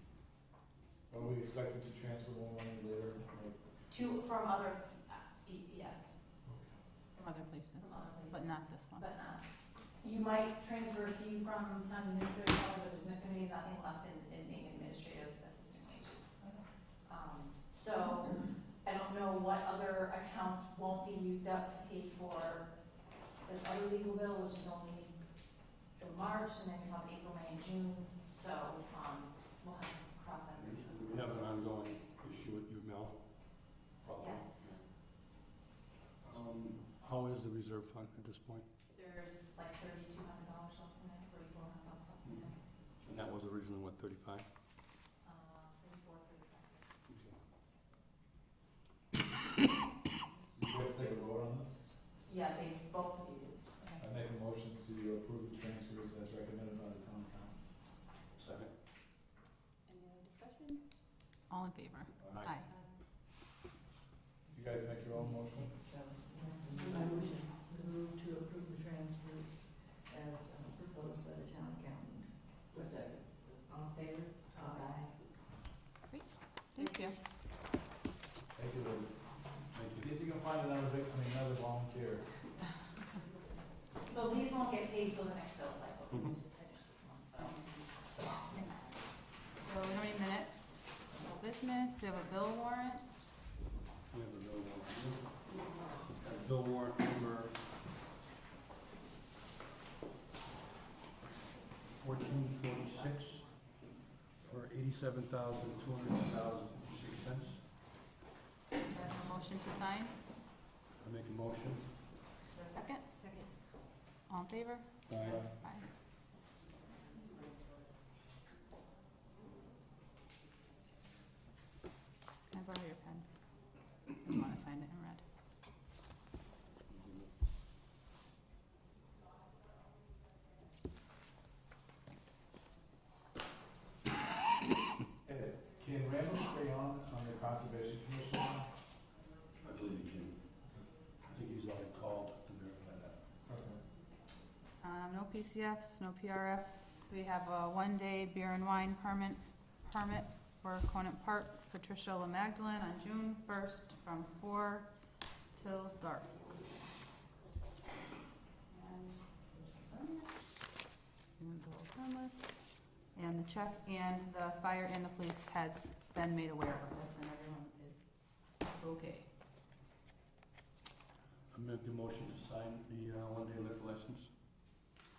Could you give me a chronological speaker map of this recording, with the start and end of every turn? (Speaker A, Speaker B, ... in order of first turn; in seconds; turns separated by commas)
Speaker A: 1.1-3.6, Speaker B: 3.9-6.2, Speaker A: 6.5-6.7, Speaker C: 7.2-9.1, Speaker B: 7.8-9.4, Speaker B: 10.0-16.5, Speaker B: 17.1-22.7, Speaker B: 23.4-25.1, Speaker B: 26.0-31.4, Speaker D: 30.6-34.9, Speaker B: 34.2-34.7, Speaker D: 36.2-38.7, Speaker B: 38.9-42.6, Speaker D: 43.0-44.5, Speaker B: 45.2-46.9, Speaker D: 47.1-47.4, Speaker A: 50.5-51.9, Speaker B: 52.3-54.0, Speaker A: 54.0-57.6, Speaker D: 58.4-58.7, Speaker C: 59.9-60.8, Speaker C: 61.5-62.7, Speaker D: 62.2-62.6, Speaker A: 64.5-65.8, Speaker E: 70.1-72.1, Speaker B: 74.5-75.1, Speaker C: 76.1-77.2, Speaker A: 78.5-79.2, Speaker D: 79.7-80.1, Speaker A: 79.9-82.3, Speaker B: 84.0-88.9, Speaker C: 89.6-93.3, Speaker D: 94.1-95.3, Speaker D: 96.1-97.6, Speaker B: 101.9-103.5, Speaker D: 102.0-103.5, Speaker D: 104.4-107.6, Speaker C: 108.9-110.2, Speaker D: 111.0-112.0, Speaker C: 112.7-113.1, Speaker C: 114.3-115.9, Speaker D: 115.1-115.5, Speaker C: 122.5-123.3, Speaker C: 124.2-125.2, Speaker D: 126.7-127.3, Speaker A: 135.2-138.7, Speaker D: 139.6-140.5, Speaker D: 141.2-143.2, Speaker A: 143.5-143.8, Speaker C: 144.8-154.9, Speaker C: 155.5-156.6, Speaker C: 158.7-160.3, Speaker C: 161.4-169.3, Speaker D: 171.5-174.3